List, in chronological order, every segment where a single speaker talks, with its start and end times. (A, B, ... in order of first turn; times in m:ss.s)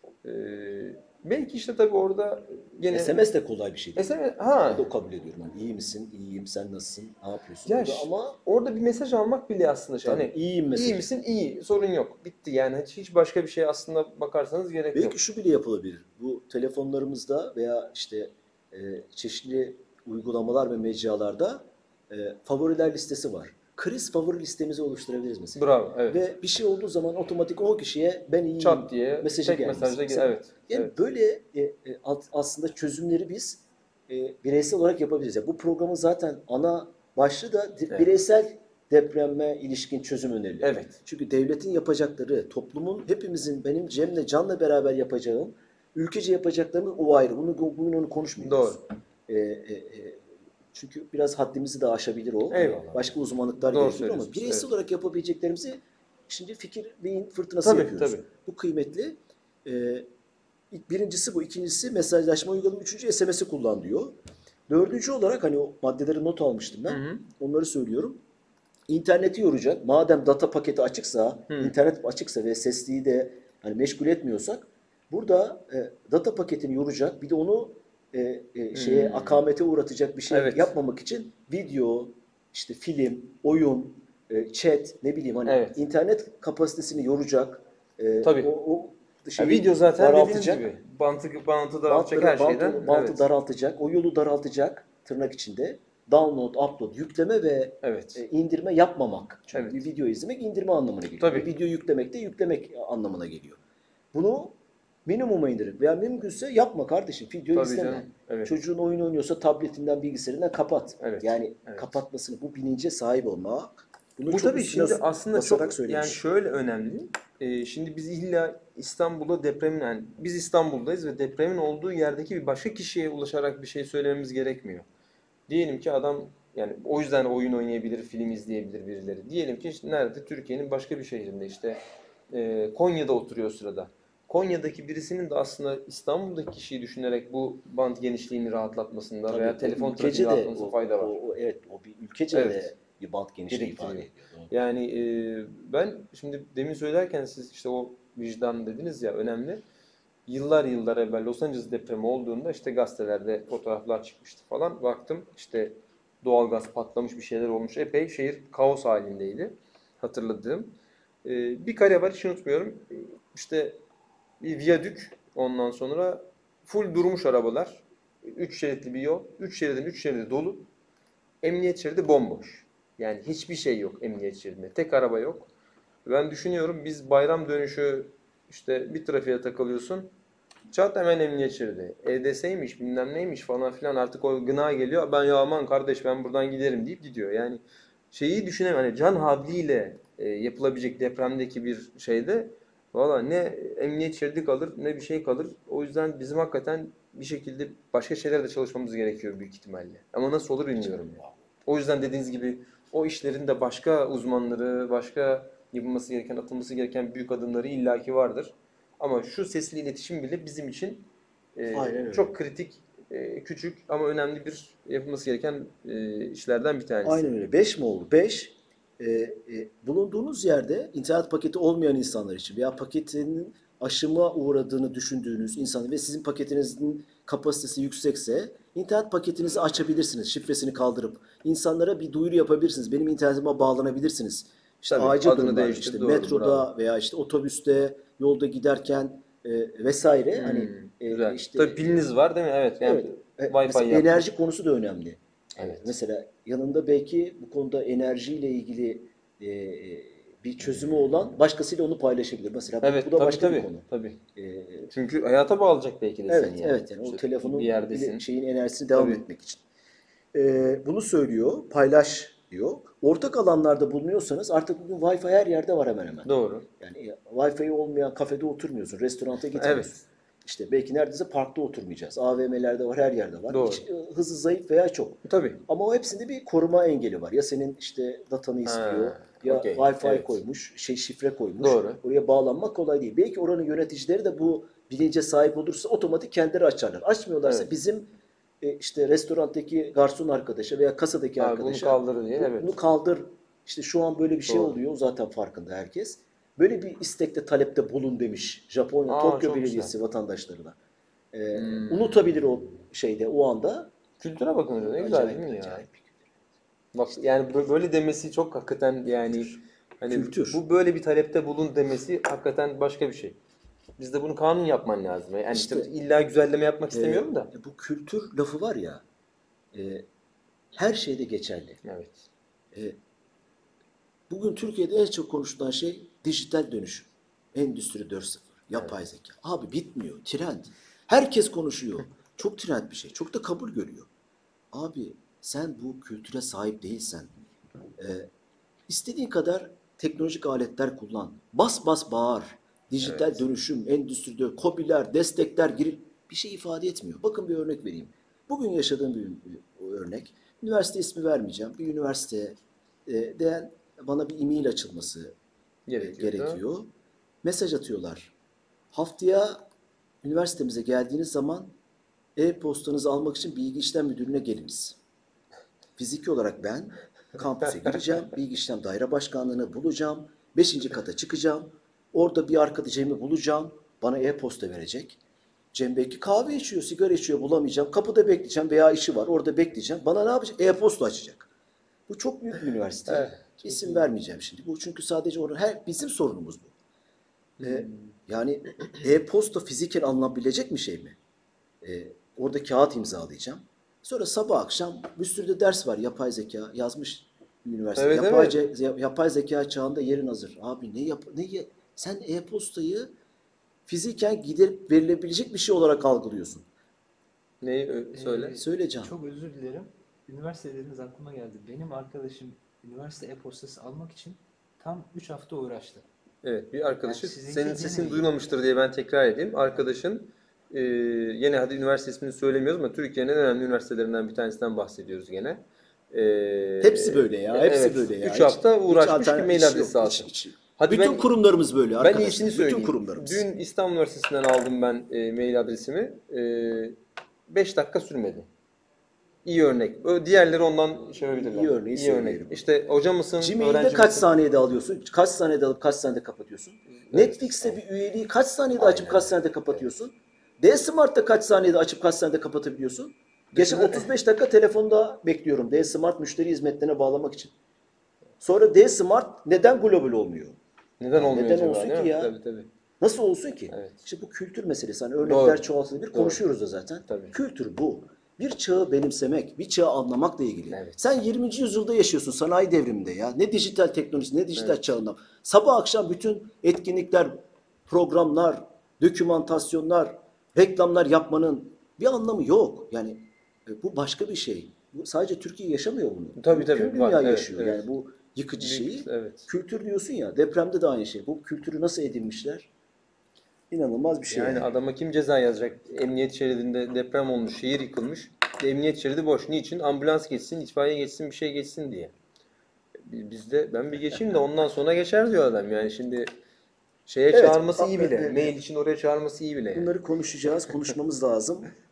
0:00.2-0:03.3 A
0:02.9-0:08.4 B
0:04.0-0:04.9 A
0:07.7-0:15.2 A
0:10.0-0:11.1 B
0:14.9-1:00.1 B
0:25.6-0:26.2 A
0:28.6-0:30.9 A
0:40.6-0:41.0 A
0:48.4-0:48.8 A
0:52.5-0:54.7 A
0:57.6-0:58.2 A
1:00.7-1:04.2 B
1:04.7-1:08.2 B
1:06.9-1:07.2 A
1:08.9-1:30.7 B
1:11.5-1:11.8 A
1:18.7-1:19.4 A
1:20.3-1:20.7 A
1:25.5-1:25.8 A
1:28.2-1:28.5 A
1:29.4-1:33.3 A
1:31.9-1:43.6 B
1:37.8-1:38.2 A
1:39.5-1:39.8 A
1:41.2-1:41.5 A
1:44.1-1:56.2 B
1:47.5-1:48.5 A
1:51.0-1:51.9 A
1:54.3-2:04.9 A
2:05.5-2:11.8 A
2:12.3-2:21.2 A
2:19.3-2:24.5 B
2:22.3-2:22.7 A
2:23.5-2:29.6 A
2:30.3-2:43.8 A
2:44.4-2:50.7 A
2:51.4-2:55.5 A
2:56.0-3:00.1 A
3:00.7-3:37.3 A
3:20.8-3:21.4 B
3:31.7-3:32.3 B
3:37.0-4:02.0 B
3:54.9-3:56.7 A
4:00.4-4:04.3 A
4:02.8-4:13.8 B
4:05.6-4:05.9 A
4:12.8-4:14.2 A
4:14.4-4:14.9 B
4:14.9-4:18.2 A
4:16.3-4:19.6 B
4:18.9-4:19.2 A
4:20.3-4:48.1 B
4:26.2-4:26.7 A
4:29.6-4:30.0 A
4:33.5-4:33.8 A
4:35.2-4:35.6 A
4:38.6-4:40.4 A
4:41.6-4:42.0 A
4:48.6-5:00.8 B
4:51.4-4:52.8 A
4:54.5-4:54.8 A
4:59.1-4:59.9 A
5:01.3-5:03.9 B
5:01.5-5:02.2 A
5:04.2-5:05.8 A
5:04.9-5:06.3 B
5:06.9-5:13.4 A
5:10.1-5:10.6 B
5:14.0-5:17.5 A
5:15.5-5:15.9 B
5:16.9-5:19.0 B
5:19.7-5:20.1 B
5:20.8-5:21.8 B
5:21.8-5:22.2 A
5:24.3-5:34.1 B
5:34.7-5:37.3 B
5:38.0-5:38.3 B
5:38.9-5:55.4 B
5:43.0-5:43.4 A
5:55.9-5:56.6 A
5:56.0-5:56.9 B
5:57.4-5:58.3 B
5:58.9-5:59.6 B
6:00.2-6:01.7 B
6:02.4-6:05.0 B
6:06.0-6:15.2 B
6:15.7-6:21.5 B
6:22.1-6:26.7 B
6:23.1-6:24.0 A
6:27.6-6:28.1 A
6:27.6-6:31.2 B
6:31.8-6:43.1 B
6:38.0-6:38.6 A
6:43.9-6:46.7 B
6:47.6-6:48.6 A
6:48.1-6:56.1 C
6:48.6-6:49.1 B
6:56.4-7:11.3 A
6:57.0-6:58.3 C
7:06.8-7:13.4 B
7:12.0-7:17.0 A
7:17.5-7:18.5 A
7:19.4-7:24.3 A
7:21.2-7:22.7 B
7:23.4-7:37.5 B
7:27.0-7:27.8 A
7:28.8-7:29.3 A
7:33.5-7:34.1 A
7:38.4-7:40.6 B
7:41.0-7:42.7 A
7:41.1-7:42.3 B
7:43.0-8:12.7 B
7:43.7-7:44.0 A
7:45.2-7:46.4 A
7:47.1-7:47.4 A
7:50.7-7:51.0 A
8:06.4-8:07.8 A
8:08.6-8:09.5 A
8:13.7-8:14.7 B
8:14.3-8:22.1 A
8:23.0-8:26.3 A
8:27.1-8:29.9 A
8:27.3-8:28.6 B
8:29.7-8:31.7 B